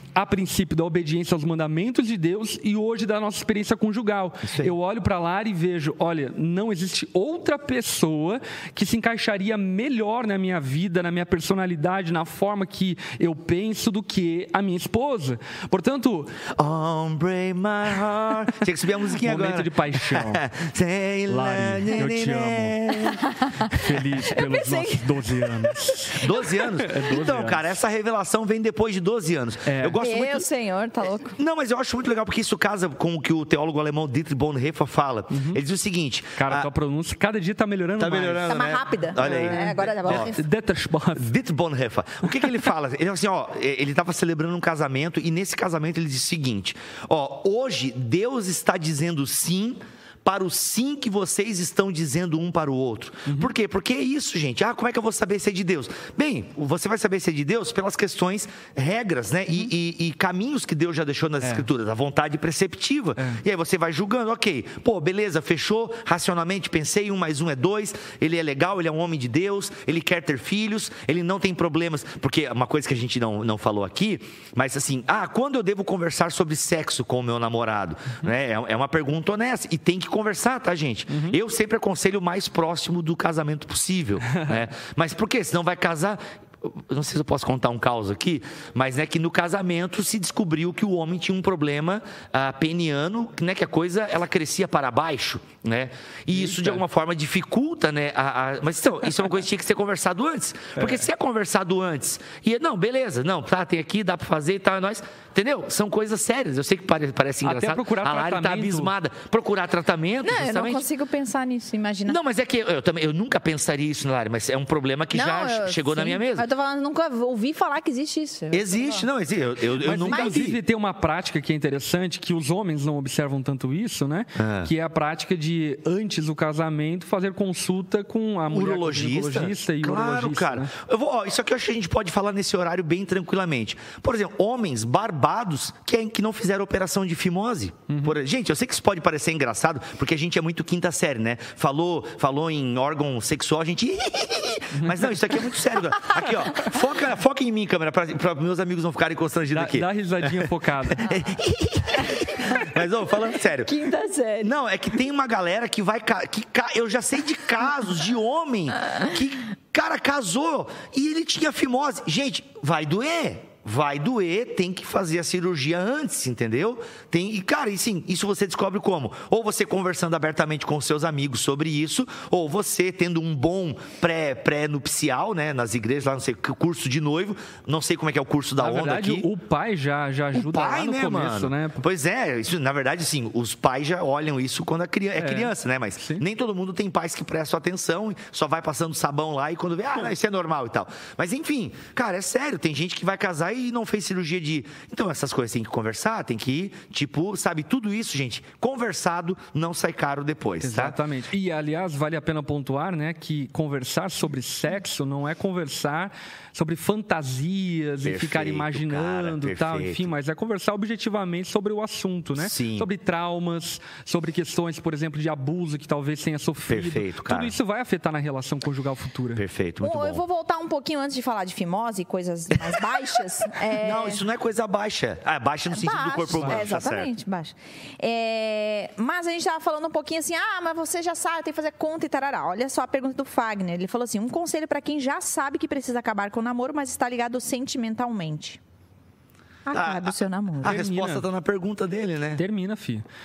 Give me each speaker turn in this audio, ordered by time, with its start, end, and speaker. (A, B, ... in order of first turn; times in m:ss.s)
0:00.1-0:16.4 A
0:04.4-0:04.7 B
0:16.5-0:24.0 B
0:19.2-0:20.4 A
0:21.3-0:22.8 A
0:23.2-0:23.7 C
0:23.7-0:27.7 A
0:24.3-0:26.2 C
0:26.1-0:30.4 B
0:29.6-0:30.0 A
0:30.0-0:31.4 C
0:31.3-0:36.7 B
0:35.3-0:35.6 A
0:36.4-0:38.6 A
0:38.0-0:40.3 B
0:38.5-0:40.4 C
0:39.2-0:41.3 A
0:41.2-1:50.8 B
0:53.2-0:53.5 A
1:21.1-1:21.4 A
1:36.3-1:36.8 A
1:40.8-1:41.1 A
1:47.4-1:48.9 A
1:50.2-1:52.2 C
1:52.0-1:56.5 B
1:55.1-1:59.0 C
1:58.5-2:00.6 B
1:59.8-2:10.7 A
2:00.0-2:00.4 C
2:04.4-2:04.7 B
2:08.5-2:33.7 B
2:17.9-2:18.2 A
2:24.8-2:25.1 A
2:29.5-2:31.1 A
2:33.6-2:34.5 C
2:34.4-2:59.3 B
2:58.6-3:01.8 A
3:00.3-3:21.0 B
3:05.2-3:06.2 A
3:20.6-3:39.4 A
3:28.0-3:30.1 B
3:32.4-3:32.9 B
3:36.7-3:37.5 B
3:39.3-3:40.2 B
3:39.8-3:44.2 C
3:43.7-3:47.1 B
3:45.7-3:58.6 C
3:46.3-3:46.6 A
3:59.6-4:00.8 C
3:59.7-4:02.4 B
4:00.6-4:01.2 A
4:02.4-4:03.0 A